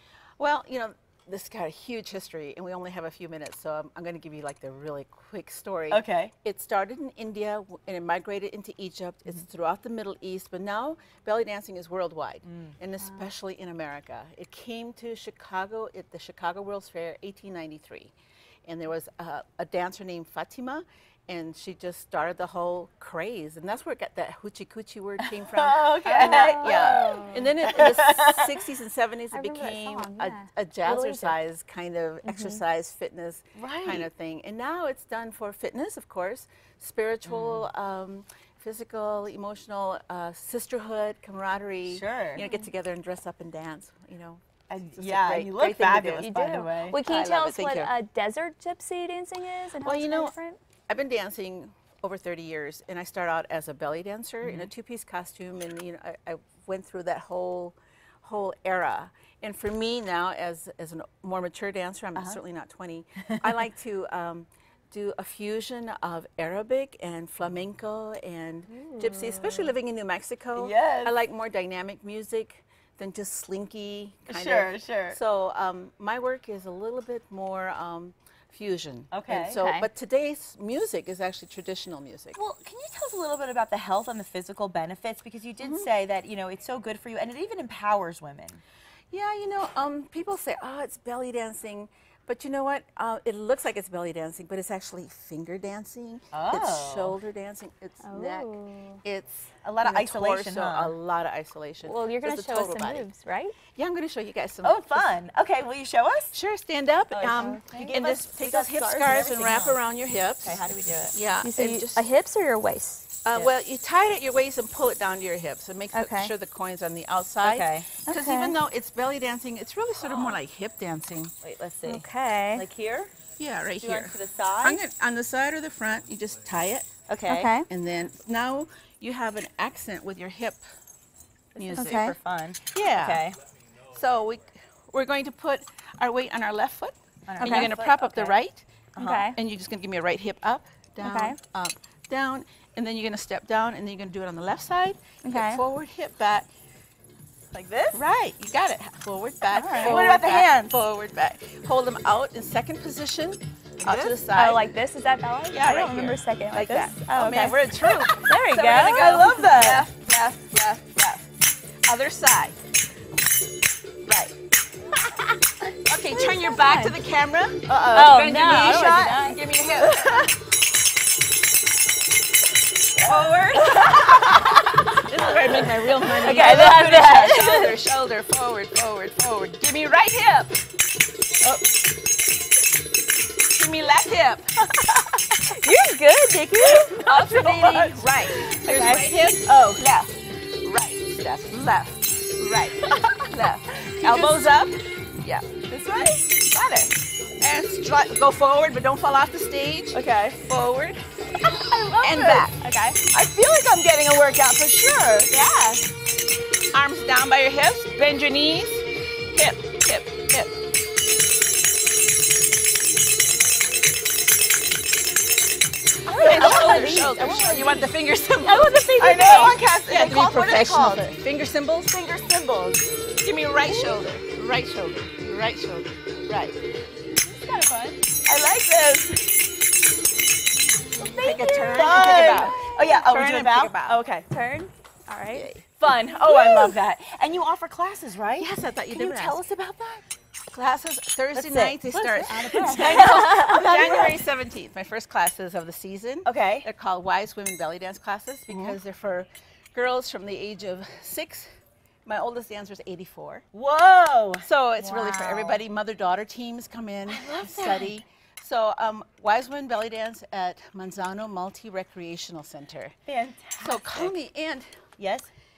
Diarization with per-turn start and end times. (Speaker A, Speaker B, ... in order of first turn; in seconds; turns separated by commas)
Speaker A: 0.4-18.1, Speaker B: 5.9-6.3, Speaker B: 12.4-12.8, Speaker C: 13.0-13.3, Speaker A: 18.7-44.4, Speaker B: 25.2-28.5, Speaker C: 26.1-27.8, Speaker C: 29.3-31.4, Speaker C: 32.2-32.6, Speaker B: 33.5-34.1, Speaker B: 37.2-37.7, Speaker B: 41.9-42.4, Speaker C: 42.4-42.7, Speaker B: 44.7-47.0, Speaker A: 44.9-46.3, Speaker C: 46.2-50.6, Speaker A: 47.0-47.9, Speaker A: 49.8-50.3, Speaker A: 50.9-82.4, Speaker B: 54.4-54.7, Speaker C: 68.7-69.7, Speaker B: 70.6-71.1, Speaker B: 74.3-75.2, Speaker B: 79.1-79.6, Speaker C: 79.6-79.9, Speaker B: 82.3-88.6, Speaker A: 85.6-85.9, Speaker A: 89.1-103.1, Speaker B: 96.3-97.2, Speaker C: 98.0-99.0, Speaker B: 99.6-101.0, Speaker C: 101.8-103.6, Speaker A: 103.8-105.2, Speaker B: 104.6-106.3, Speaker A: 106.3-110.6, Speaker B: 107.1-109.8, Speaker C: 107.2-107.9, Speaker B: 110.4-111.2, Speaker A: 111.1-112.1, Speaker C: 111.4-113.1, Speaker A: 113.2-121.3, Speaker C: 115.9-116.3, Speaker B: 117.4-117.9, Speaker C: 118.0-118.6, Speaker B: 121.4-123.1, Speaker C: 121.9-122.6, Speaker A: 123.4-126.9, Speaker B: 123.8-124.8, Speaker B: 127.1-127.5, Speaker C: 127.3-127.7, Speaker A: 127.6-130.6, Speaker B: 131.6-133.4, Speaker A: 131.6-132.1, Speaker C: 131.7-132.2, Speaker A: 132.7-133.2, Speaker A: 133.9-138.7, Speaker B: 137.3-138.4, Speaker C: 137.4-137.7, Speaker B: 138.9-139.3, Speaker C: 139.0-139.4, Speaker A: 139.3-146.5, Speaker C: 141.0-141.4, Speaker C: 145.2-145.6, Speaker B: 147.5-148.0, Speaker A: 147.9-154.8, Speaker C: 149.5-150.3, Speaker B: 149.6-150.7, Speaker B: 153.8-154.2, Speaker C: 154.3-159.9, Speaker A: 155.5-161.3, Speaker A: 161.8-162.6, Speaker B: 164.1-164.3, Speaker A: 165.8-170.3, Speaker C: 166.1-167.0, Speaker B: 167.6-170.3, Speaker C: 167.9-169.4, Speaker B: 173.0-175.0, Speaker A: 173.1-180.6, Speaker C: 175.3-177.8, Speaker A: 183.5-184.4, Speaker C: 185.5-188.1, Speaker A: 186.8-195.5, Speaker B: 188.4-188.9, Speaker C: 188.7-189.1, Speaker B: 192.9-193.2, Speaker B: 194.0-194.5, Speaker B: 195.7-196.3, Speaker A: 196.3-201.1, Speaker B: 199.9-200.4, Speaker B: 201.4-205.3, Speaker A: 202.0-202.6, Speaker C: 202.6-203.0, Speaker C: 205.3-205.8, Speaker A: 206.7-210.5, Speaker B: 216.1-217.5, Speaker C: 216.1-217.8, Speaker A: 216.1-218.8, Speaker C: 218.4-219.6, Speaker B: 219.0-221.2, Speaker A: 219.3-222.0, Speaker B: 221.9-222.9, Speaker A: 223.2-226.6, Speaker B: 227.2-229.4, Speaker B: 230.9-234.3, Speaker A: 231.0-234.0, Speaker C: 234.3-235.5, Speaker A: 235.3-236.8, Speaker B: 235.8-240.0, Speaker A: 238.3-239.4, Speaker A: 240.5-251.5, Speaker B: 241.3-244.2, Speaker C: 242.3-244.1, Speaker B: 246.2-246.7, Speaker B: 248.5-248.8, Speaker A: 252.1-253.4, Speaker B: 253.5-254.5, Speaker A: 254.4-263.0, Speaker C: 254.8-255.6, Speaker B: 257.1-258.0, Speaker B: 263.1-264.1, Speaker A: 263.6-264.7, Speaker B: 265.0-265.3